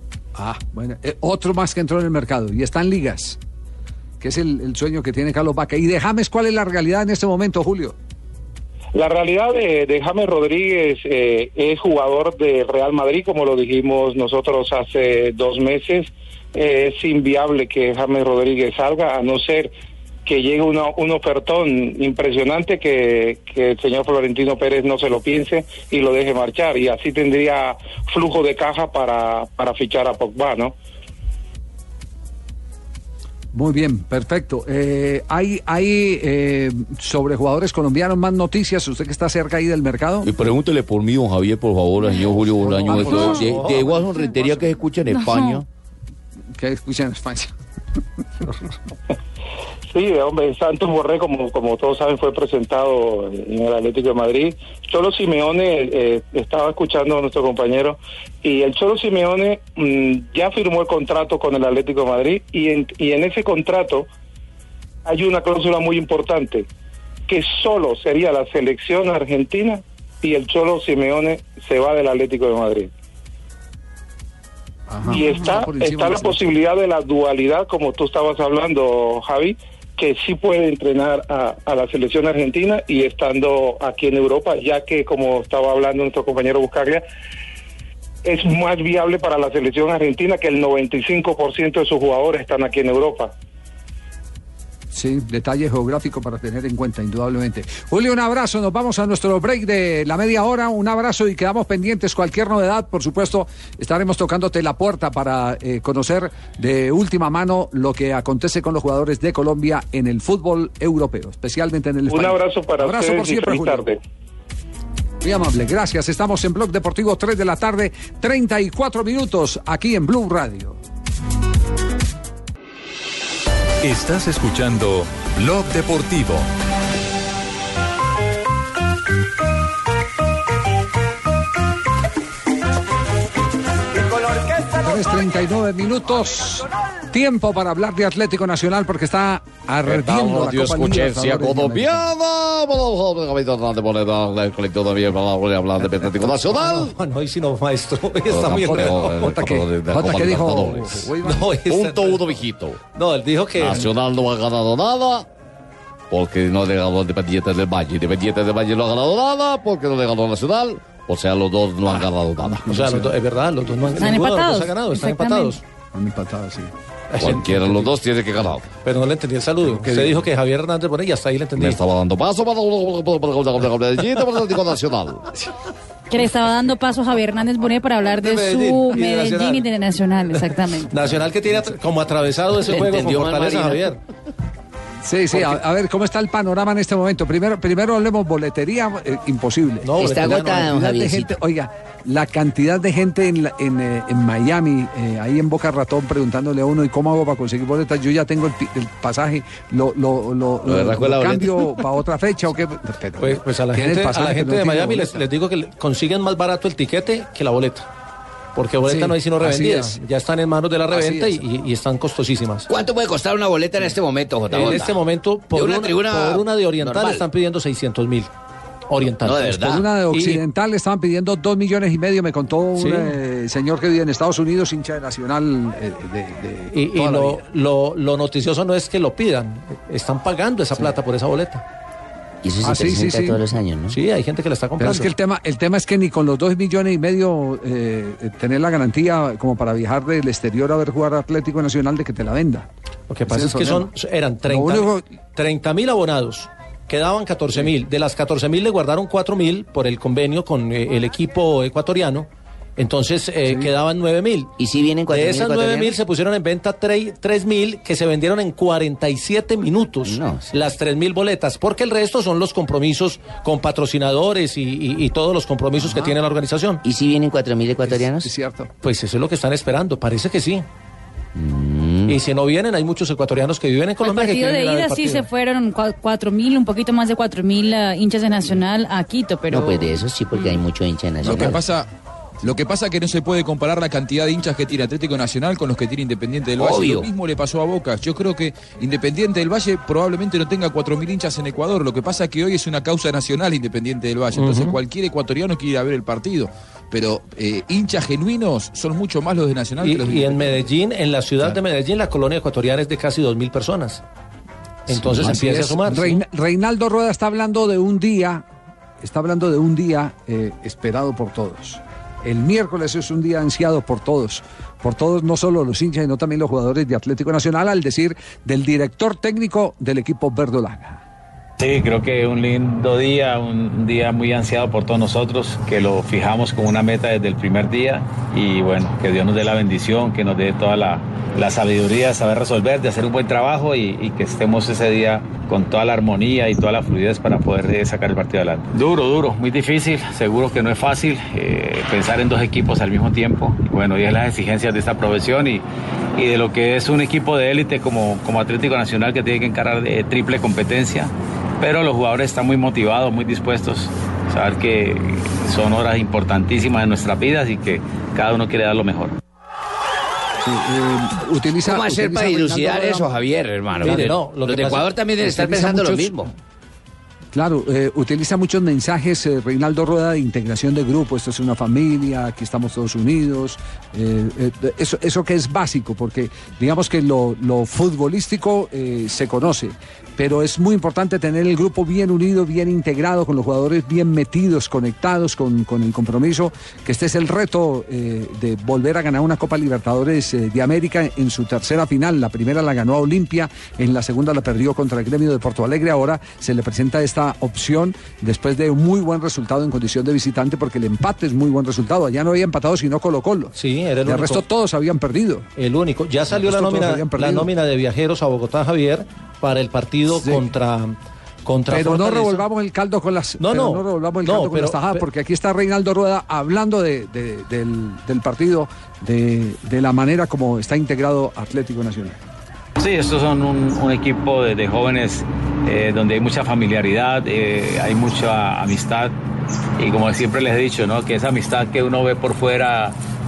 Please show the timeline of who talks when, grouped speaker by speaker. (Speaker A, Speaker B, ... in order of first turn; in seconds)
Speaker A: 0.3-3.4, 4.2-8.0, 33.5-40.3, 42.8-43.9, 46.5-47.5, 74.9-76.5, 94.9-113.9, 115.2-120.8, 134.8-142.1, 148.4-151.5, 162.7-163.1, 165.9-166.7, 169.6-170.3, 185.0-205.2, 208.8-210.0, 210.9-211.4, 219.5-227.4, 232.6-233.4, 234.8-242.7, 243.2-243.9, 244.4-245.1, 265.8-266.1, 267.9-268.7, 304.9-308.4, 309.0-321.0, 360.4-363.1, 365.2-366.1, 367.3-403.5, 404.0-405.5, 406.3-407.5, 410.2-410.4, 411.7-422.2
Speaker B: 8.9-19.7, 20.2-30.7, 49.9-64.1, 65.0-66.7, 67.3-72.9, 75.1-87.0, 88.2-93.3, 112.1-114.0
Speaker C: 40.2-43.3, 140.0-146.7, 148.7-150.9, 151.7-152.8, 153.6-155.2, 156.1-162.7, 167.2-168.6, 171.6-175.2
Speaker D: 42.6-44.0, 146.1-149.5, 151.2-153.9, 162.7-165.6, 167.1-167.9, 168.8-171.8, 178.2-179.6, 180.9-184.0, 185.3-185.6, 189.8-190.7, 203.2-207.9, 208.5-212.7, 214.5-218.3, 218.9-220.4, 222.8-223.1, 226.7-231.6, 233.9-235.1, 243.1-254.5, 255.1-266.8, 268.8-270.6, 272.1-275.2, 294.3-294.8, 299.8-304.0, 304.9-306.2, 363.8-365.0, 403.5-404.4, 405.6-412.4, 413.4-415.1
Speaker E: 42.8-45.6, 182.6-183.9, 190.0-191.3, 200.7-201.4, 212.7-215.0, 215.5-217.2, 219.2-219.8, 232.4-234.0, 254.6-255.9, 260.0-260.4, 266.8-268.3, 271.4-272.2, 279.5-281.6, 286.6-287.1, 361.6-366.3
Speaker F: 43.0-43.4, 45.1-45.6, 164.0-165.5, 176.1-180.9, 274.0-279.9
Speaker G: 123.8-126.5
Speaker H: 281.2-281.9, 282.4-300.6
Speaker I: 321.6-345.6, 346.2-359.1, 422.8-429.1, 429.8-432.9